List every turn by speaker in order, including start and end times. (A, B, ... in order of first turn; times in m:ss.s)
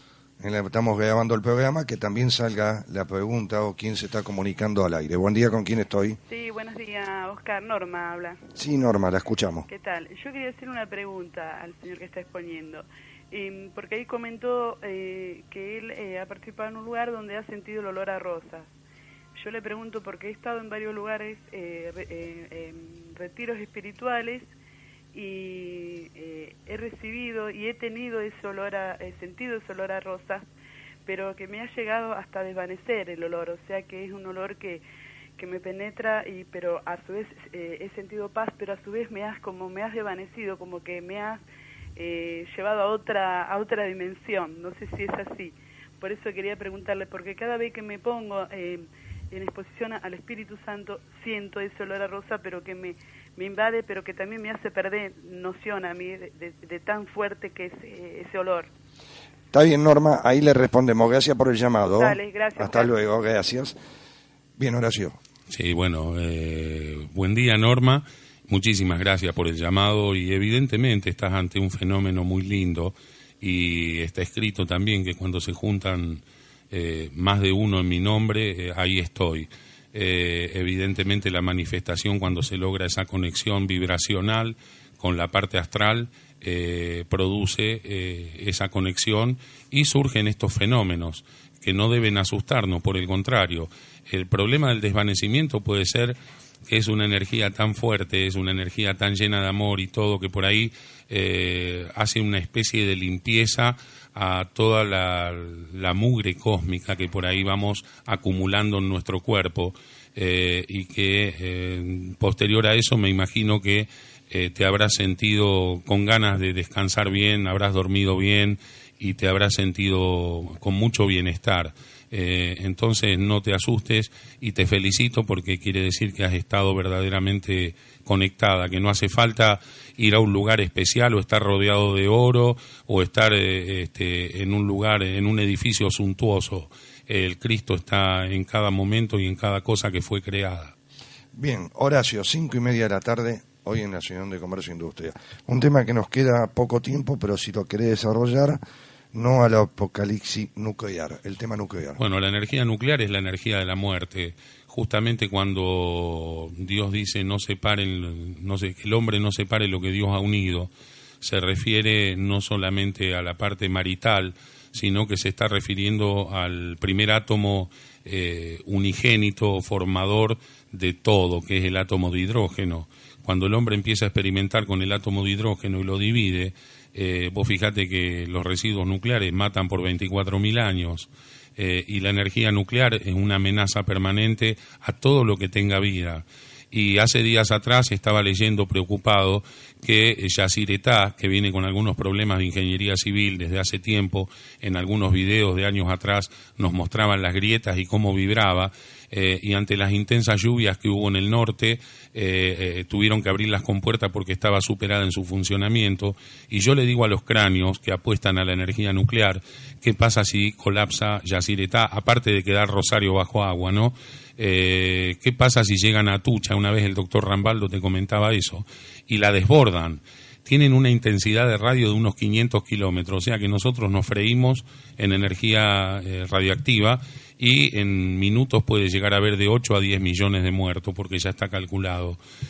0:00.4-0:06.2 A
0:06.3-0:08.4 B
0:08.5-0:09.7 A
0:09.7-0:18.7 B
0:19.4-0:24.5 B
0:25.1-0:30.5 B
0:31.0-0:34.8 B
0:35.4-0:41.4 B
0:42.0-0:58.7 B
0:59.5-1:03.8 A
1:01.9-1:02.9 B
1:04.6-1:05.2 A
1:05.5-2:20.7 C
2:21.3-2:28.6 A
2:29.1-2:32.0 A
2:32.0-2:40.7 C
2:41.2-3:52.2 C